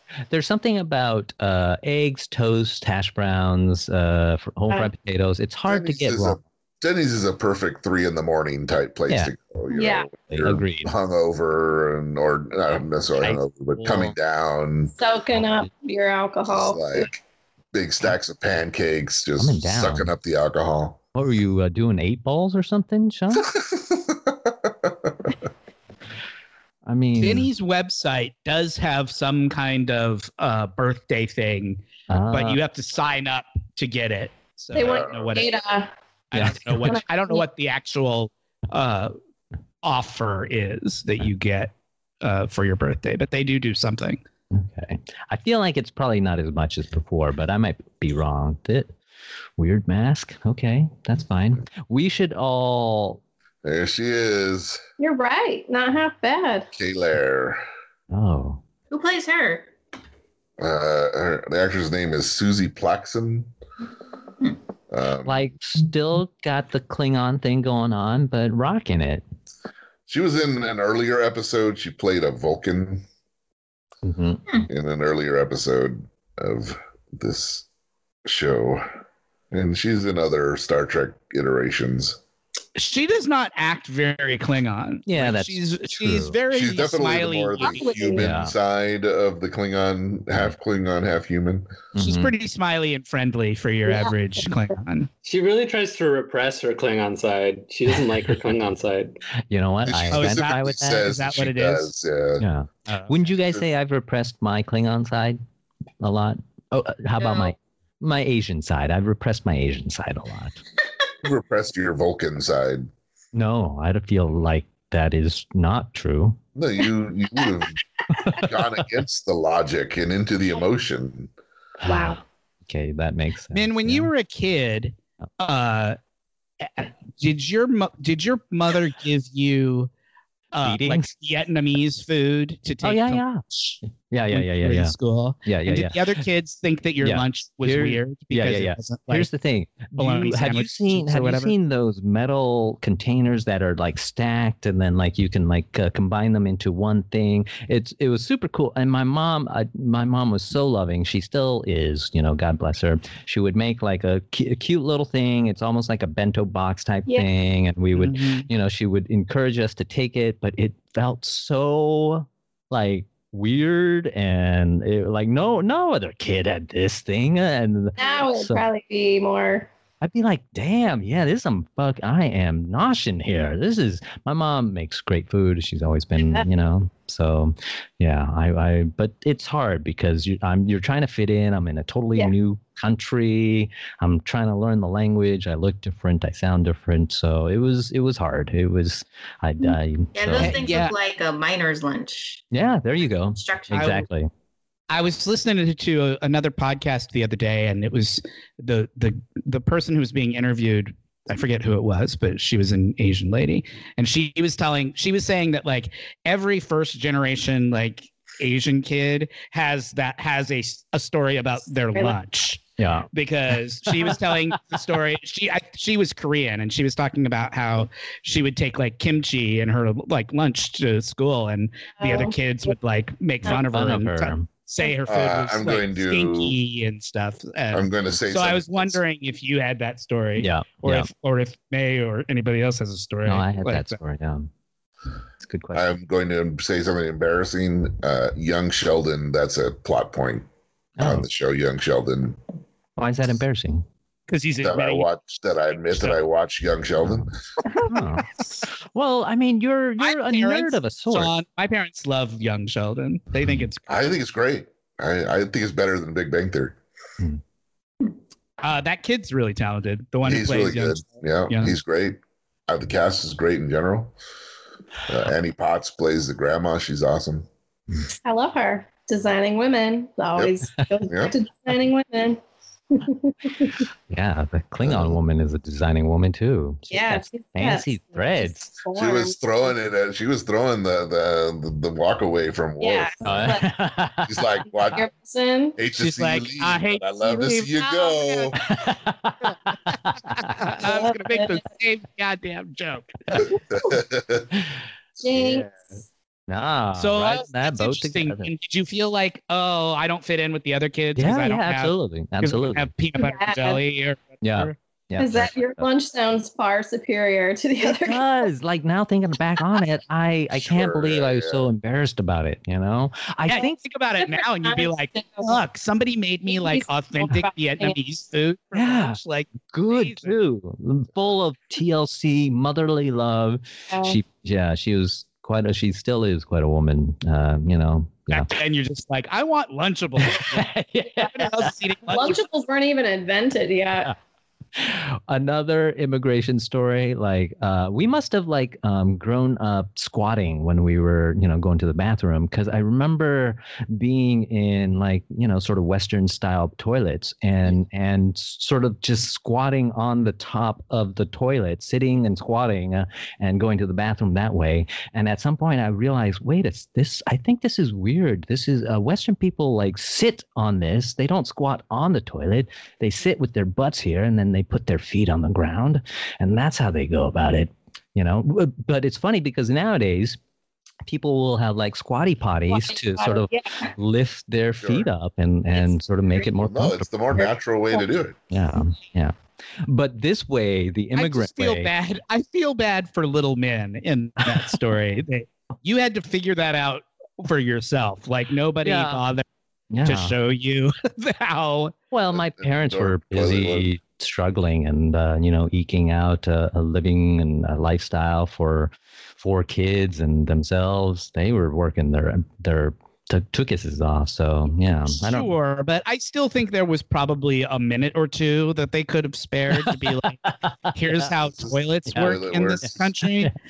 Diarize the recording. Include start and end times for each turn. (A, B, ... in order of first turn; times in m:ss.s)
0:00.3-0:06.4 A
0:05.7-0:14.9 B
0:09.7-0:10.1 C
0:10.3-0:10.9 A
0:13.8-0:14.2 A
0:14.9-0:17.1 C
0:15.4-0:15.7 A
0:16.5-0:17.2 B
0:17.7-0:21.0 B
0:19.4-0:20.1 A
0:21.2-0:23.5 A
0:23.4-0:25.4 B
0:26.8-0:27.5 A
0:27.2-0:35.5 D
0:32.1-0:32.6 A
0:34.7-0:35.9 C
0:34.8-0:35.4 B
0:36.3-0:39.1 D
0:36.3-0:37.0 A
0:36.8-0:37.4 C
0:39.8-0:44.2 D
0:44.5-0:49.0 A
0:49.6-0:53.2 A
0:53.6-0:54.8 B
0:55.0-0:56.7 C
0:56.8-0:57.6 B
0:58.1-0:58.6 A
0:58.9-0:59.7 E
1:00.6-1:03.5 B
1:04.9-1:05.5 B
1:05.2-1:09.2 A
1:10.1-1:13.1 B
1:14.0-1:14.4 A
1:14.7-1:17.7 B
1:18.2-1:18.8 B
1:19.5-1:22.2 B
1:22.8-1:28.1 D
1:25.1-1:26.4 A
1:26.5-1:31.7 B
1:27.6-1:28.3 C
1:28.1-1:28.6 A
1:31.9-1:32.3 A
1:32.0-1:35.1 D
1:33.9-1:34.1 C
1:35.2-1:39.2 F
1:39.5-1:41.2 A
1:39.9-1:42.5 B
1:40.1-1:41.9 D
1:42.4-1:45.4 A
1:42.9-1:43.2 D
1:46.0-1:50.6 A
1:47.2-1:47.6 E
1:51.2-1:52.9 B
1:53.3-1:56.4 A
1:56.6-1:57.8 B
1:58.1-1:58.4 A
1:58.4-2:01.3 B
2:01.8-2:04.1 A
2:03.5-2:06.0 D
2:06.6-2:09.9 D
2:10.5-2:13.8 D
2:10.6-2:11.1 A
2:12.8-2:13.4 A
2:14.1-2:16.2 A
2:14.3-2:19.3 D
2:17.0-2:48.6 A
2:19.9-2:21.6 D
2:38.0-2:38.5 D
2:48.0-2:49.7 C
2:50.0-3:10.6 A
3:10.2-3:12.5 E
3:10.4-3:10.9 D
3:12.5-3:14.3 A
3:13.4-3:13.9 E
3:13.7-3:14.1 D
3:14.9-3:32.6 D
3:32.8-3:34.8 A
3:33.1-3:54.0 D
3:42.0-3:42.4 C
3:43.5-3:44.5 A
3:45.1-3:46.6 B
3:47.7-3:49.0 B
3:50.4-3:51.1 A
3:53.2-3:54.5 A
3:55.4-3:55.9 A
3:55.7-4:00.5 B
4:01.0-4:01.3 A
4:01.0-4:02.4 B
4:03.0-4:03.9 A
4:04.3-4:05.1 D
4:04.6-4:07.4 B
4:05.9-4:06.2 D
4:07.0-4:11.3 A
4:10.0-4:14.2 D
4:13.9-4:16.8 B
4:18.6-4:21.8 D
4:20.2-4:24.1 B
4:25.1-4:27.5 B
4:28.2-4:32.4 C
4:31.1-4:31.4 B
4:32.9-4:33.8 C
4:34.1-4:38.8 A
4:34.8-4:35.2 B
4:36.9-4:39.4 C
4:39.0-4:43.5 B
4:42.8-4:43.7 C
4:43.2-4:44.5 A
4:44.2-4:45.1 B
4:44.7-4:45.8 C
4:45.8-4:48.6 B
4:46.0-4:48.6 D
4:48.6-4:50.8 A
4:49.9-4:53.5 D
4:50.8-4:51.7 C
4:53.4-4:54.5 B
4:55.2-4:55.9 C
4:55.2-4:55.7 B
4:56.5-4:58.5 A
4:57.0-5:04.8 D
5:01.2-5:02.9 A
5:03.2-5:03.8 C
5:04.4-5:05.9 A
5:05.2-5:08.4 C
5:07.8-5:13.8 A
5:10.5-5:11.7 B
5:13.5-5:20.4 D
5:14.2-5:15.6 C
5:16.4-5:18.0 C
5:18.7-5:28.5 A
5:23.9-5:24.2 C
5:28.3-5:30.7 D
5:30.2-5:32.3 A
5:31.3-5:32.4 D
5:32.1-5:34.1 C
5:34.7-6:10.4 A
6:11.0-6:17.1 A
6:12.7-6:13.9 C
6:14.8-6:15.1 B
6:16.5-6:18.4 B
6:17.4-6:18.0 C
6:18.5-6:21.9 A
6:21.2-6:29.4 D
6:24.4-6:24.8 A
6:28.8-6:29.2 A
6:29.9-6:30.4 A
6:30.0-6:31.9 D
6:32.1-6:45.6 A
6:32.3-6:33.9 B
6:45.2-6:53.5 D
6:49.7-6:51.3 A
6:51.6-6:53.1 B
6:52.1-6:53.5 A